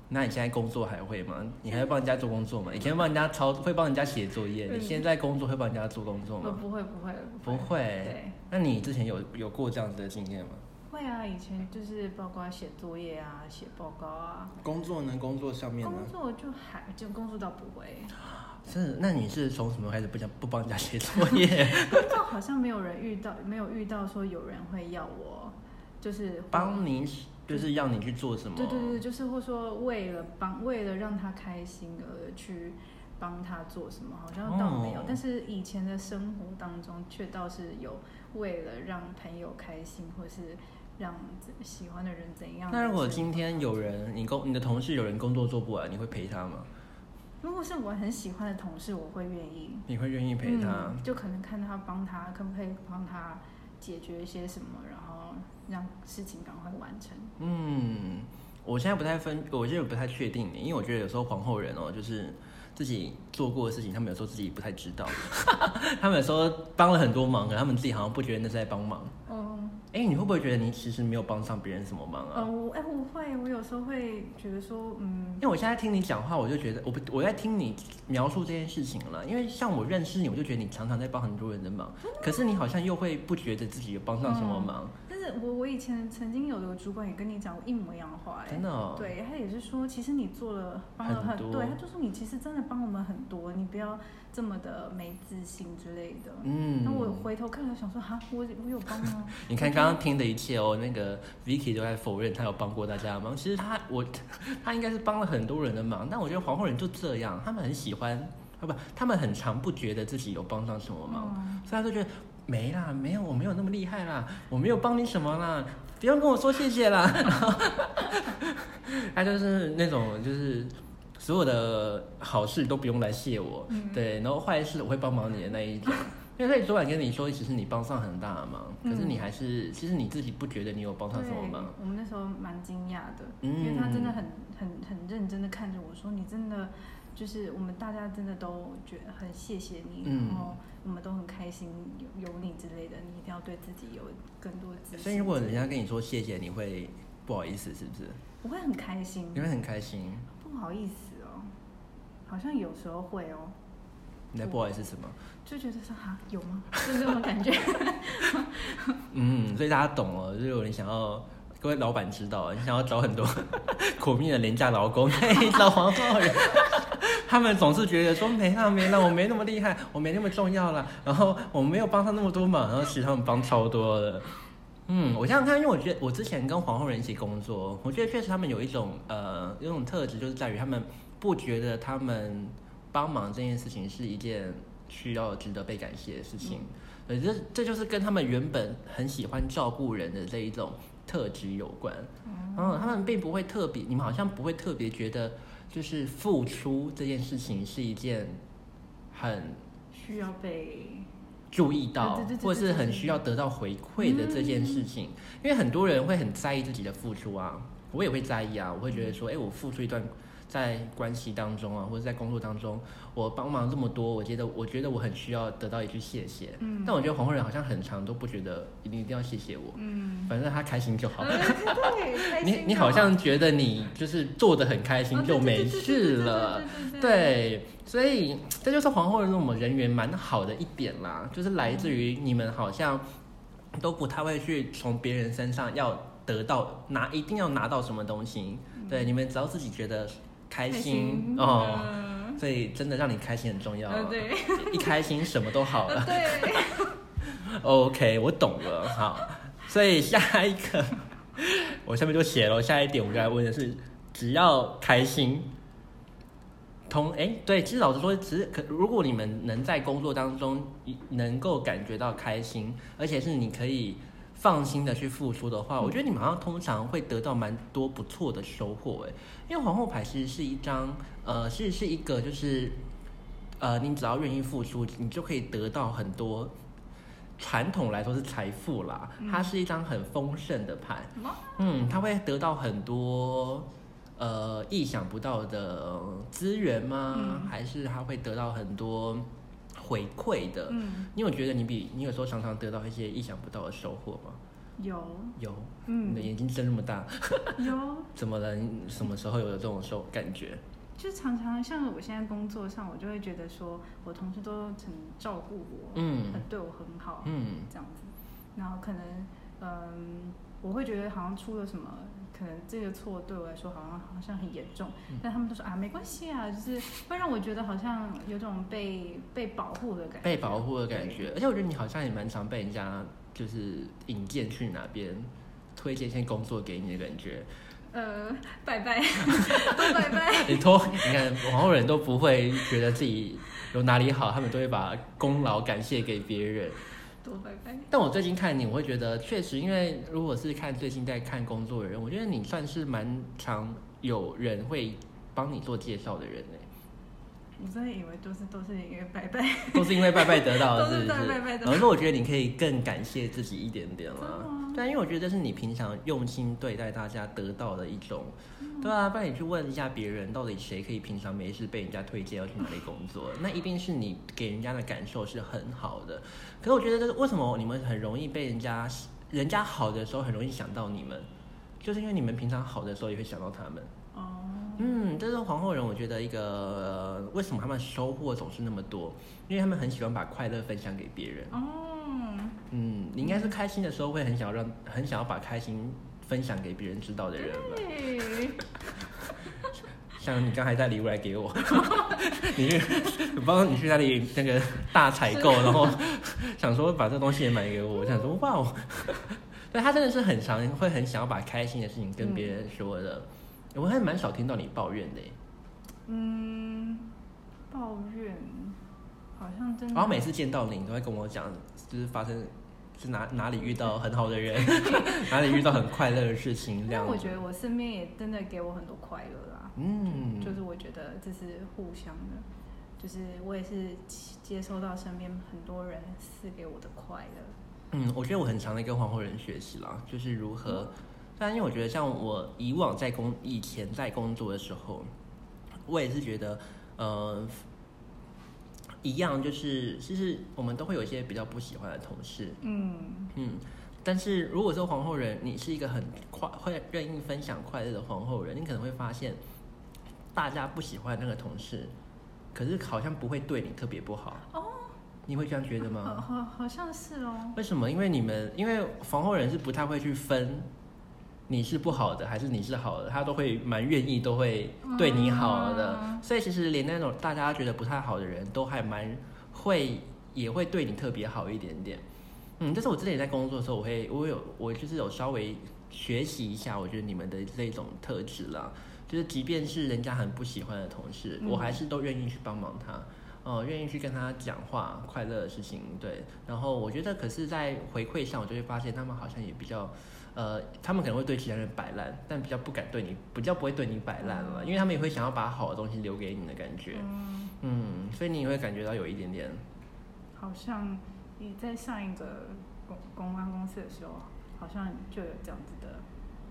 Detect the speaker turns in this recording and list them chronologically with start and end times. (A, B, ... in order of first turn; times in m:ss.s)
0:00.1-0:06.6 A
0:04.7-0:05.0 B
0:06.4-0:08.4 B
0:07.4-0:10.6 A
0:10.9-0:14.6 B
0:14.6-0:16.1 A
0:15.8-0:18.2 B
0:18.6-0:22.2 A
0:21.5-0:26.8 B
0:26.5-0:29.0 A
0:28.6-0:43.8 B
0:34.4-0:35.2 A
0:42.7-0:46.7 A
0:47.4-0:49.9 B
0:49.9-0:51.0 A
0:50.4-0:57.3 B
0:57.4-1:09.2 A
1:09.3-1:09.8 B
1:09.9-1:12.5 A
1:12.3-1:15.5 B
1:15.4-1:24.9 A
1:22.0-1:22.5 B
1:24.2-1:40.0 B
1:28.5-1:29.1 A
1:31.0-1:31.8 A
1:36.4-1:37.2 A
1:39.0-2:11.8 A
1:51.1-1:51.6 B
2:03.7-2:04.0 B
2:08.8-2:09.2 B
2:11.1-2:25.8 B
2:13.4-2:14.2 A
2:20.0-2:20.6 A
2:25.0-2:28.2 A
2:28.4-2:29.5 B
2:29.3-2:30.3 A
2:30.3-2:31.5 B
2:32.3-2:33.6 B
2:34.3-2:35.2 A
2:35.4-2:39.0 B
2:39.1-2:54.4 A
2:54.9-3:18.4 A
3:12.2-3:13.1 B
3:19.1-3:19.6 A
3:19.9-3:21.1 B
3:21.5-3:53.0 A
3:22.0-3:23.2 B
3:24.0-3:24.9 B
3:28.9-3:29.2 B
3:36.6-3:37.1 B
3:39.8-3:40.3 B
3:41.2-3:43.2 B
3:45.1-3:47.4 B
3:51.6-3:52.0 B
3:53.8-4:06.6 A
3:58.8-3:59.1 B
4:00.7-4:02.4 B
4:03.9-4:07.0 B
4:07.2-4:15.5 A
4:16.9-4:32.8 A
4:33.6-4:36.5 A
4:37.4-4:54.4 A
4:39.2-4:39.5 B
4:41.2-4:41.7 B
4:47.1-4:47.5 B
4:50.7-4:51.1 B
4:54.8-4:56.3 B
4:55.4-5:00.6 A
4:57.6-4:58.1 B
5:01.0-5:21.3 B
5:06.0-5:06.4 A
5:07.2-5:07.7 A
5:20.2-5:27.5 A
5:27.9-5:31.2 B
5:29.3-5:36.8 A
5:37.2-5:37.9 B
5:37.9-5:46.7 A
5:47.6-5:51.9 B
5:49.7-6:11.3 A
5:54.2-5:54.8 B
5:58.6-5:58.9 B
6:11.8-6:13.9 A
6:14.1-6:15.0 B
6:14.8-6:21.5 A
6:21.5-6:22.6 B
6:22.7-6:27.9 A
6:23.2-6:23.5 B
6:27.4-6:28.8 B
6:30.2-6:45.4 A
6:35.4-6:36.0 B
6:46.1-6:47.1 B
6:47.7-6:48.8 B
6:49.4-6:50.3 B
6:49.9-6:57.4 A
6:54.6-6:55.7 B
6:56.9-7:02.5 B
6:59.8-7:00.6 A
7:03.0-7:07.6 B
7:07.9-7:15.1 A
7:15.9-7:17.6 A
7:19.0-7:22.6 A
7:22.6-7:23.3 B
7:23.4-7:29.4 A
7:30.3-7:31.9 A
7:32.5-7:34.5 A
7:34.5-7:35.0 B
7:35.3-7:36.2 A
7:35.8-7:37.6 B
7:37.6-7:40.7 A
7:41.5-7:52.0 A
7:44.8-7:46.2 B
7:52.6-8:17.1 A
8:01.4-8:01.8 B
8:14.2-8:15.0 B
8:16.9-8:17.6 B
8:17.6-8:19.6 A
8:20.4-8:26.0 B